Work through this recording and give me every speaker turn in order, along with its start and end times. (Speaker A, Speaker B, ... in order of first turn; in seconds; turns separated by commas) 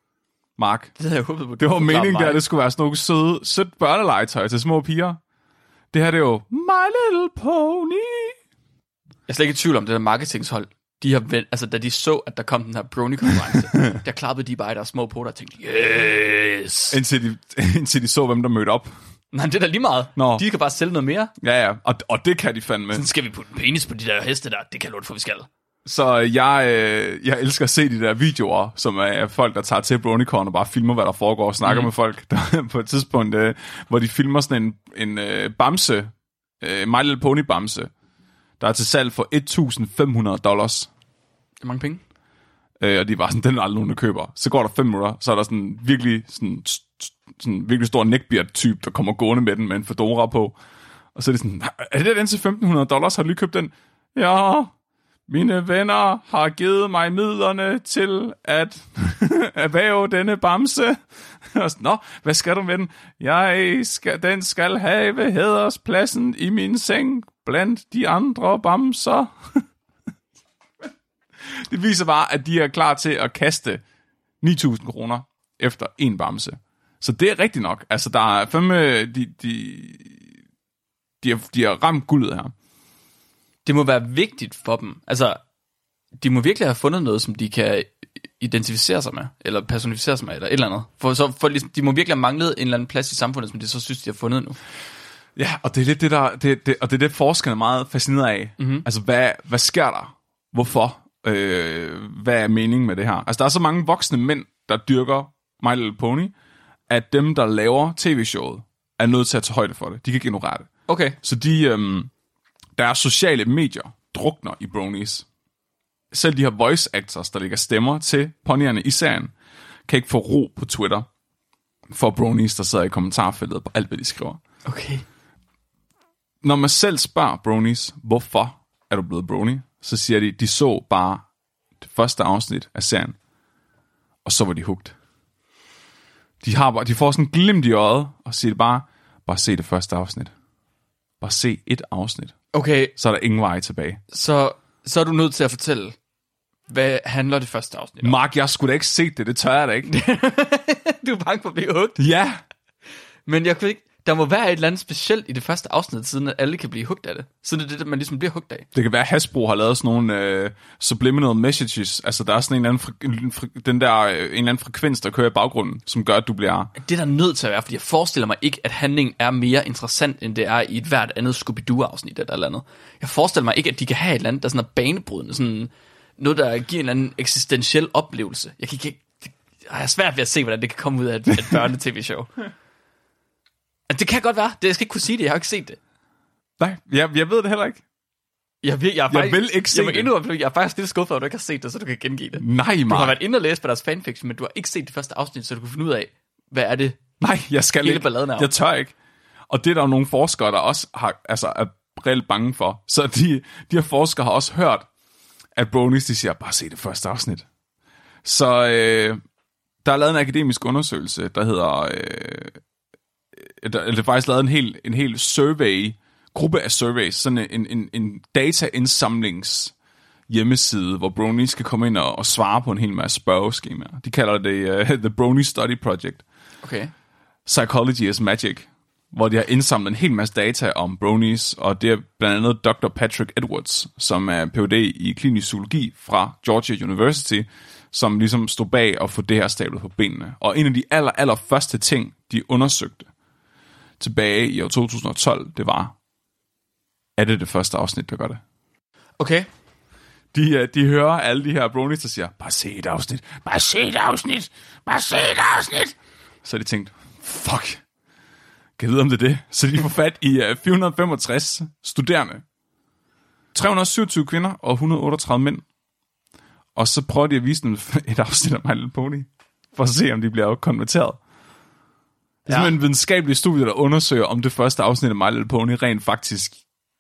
Speaker A: 0.6-0.9, Speaker B: 1.0-2.4, Speaker A: 1.6-5.2, Speaker A: 5.9-8.4, Speaker B: 9.3-17.0, Speaker A: 16.9-18.9, Speaker B: 19.3-21.3, Speaker A: 20.2-20.4, Speaker A: 21.4-23.0, Speaker B: 22.9-25.5, Speaker A: 25.9-37.9, Speaker B: 31.6-31.9, Speaker A: 38.6-40.9, Speaker B: 41.6-42.0, Speaker A: 42.8-50.6, Speaker A: 51.1-54.7, Speaker A: 55.3-61.0, Speaker A: 61.5-69.6, Speaker A: 71.5-73.8, Speaker A: 74.4-80.3, Speaker A: 81.2-82.5, Speaker B: 83.7-85.4, Speaker B: 86.2-94.6, Speaker A: 95.4-106.3, Speaker B: 98.6-98.9, Speaker A: 106.9-110.7, Speaker B: 110.9-111.2, Speaker A: 111.2-112.1, Speaker A: 112.8-115.3, Speaker A: 116.1-119.3, Speaker A: 119.9-121.1, Speaker A: 121.9-124.4, Speaker B: 124.7-125.0, Speaker A: 126.4-131.2, Speaker A: 131.8-133.2, Speaker A: 134.2-134.9, Speaker A: 136.4-140.3, Speaker A: 141.2-142.3, Speaker B: 142.5-142.9, Speaker A: 143.0-144.0, Speaker B: 144.1-145.9, Speaker B: 146.7-148.2, Speaker A: 148.0-149.9, Speaker B: 149.9-152.0, Speaker A: 152.0-152.4, Speaker B: 153.3-158.7, Speaker A: 158.7-166.7, Speaker B: 166.8-182.3, Speaker B: 183.9-185.8, Speaker A: 186.6-187.8, Speaker B: 188.6-197.0, Speaker A: 189.1-190.1, Speaker A: 192.4-193.2, Speaker A: 197.2-198.9, Speaker B: 197.8-198.5, Speaker A: 199.5-204.9, Speaker A: 205.6-207.4, Speaker A: 208.2-209.2, Speaker A: 209.8-212.6, Speaker A: 213.4-219.7, Speaker A: 220.3-226.2, Speaker B: 226.6-226.9, Speaker A: 227.5-243.1, Speaker A: 244.0-245.9, Speaker A: 247.2-248.4, Speaker B: 249.2-249.5, Speaker A: 250.3-257.8, Speaker A: 258.8-262.4, Speaker A: 263.5-265.6, Speaker A: 266.8-271.2, Speaker B: 272.5-272.7, Speaker A: 272.5-276.6